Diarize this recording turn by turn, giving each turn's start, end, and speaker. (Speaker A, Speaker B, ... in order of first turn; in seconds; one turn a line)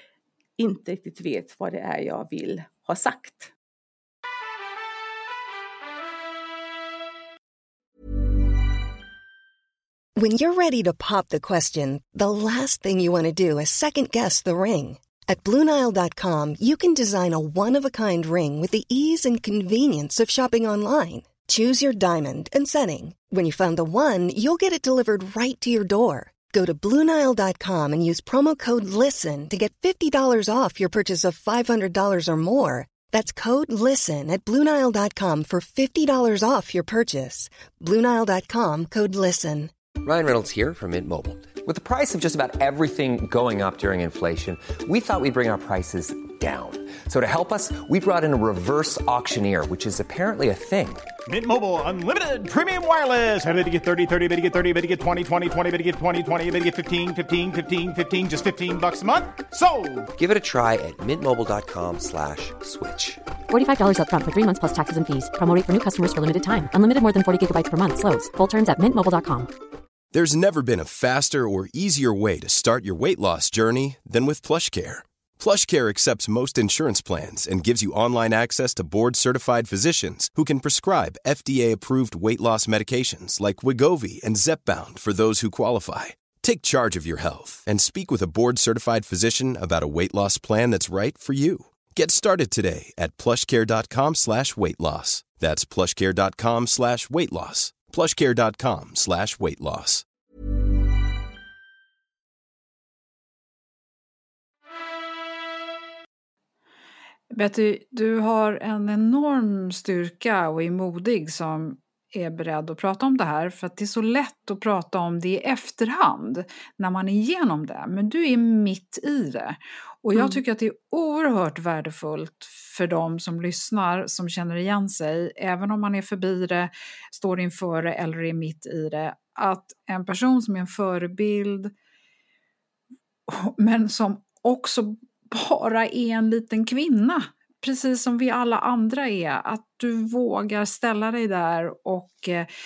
Speaker A: 0.6-3.5
Speaker B: 10.2-39.7
Speaker C: 40.0-51.1
Speaker D: 51.3-60.1
Speaker C: 60.2-63.2
Speaker E: 63.5-69.5
Speaker F: 70.1-100.0
Speaker G: 107.3-131.7
Speaker A: 120.2-120.4
Speaker G: 133.3-142.5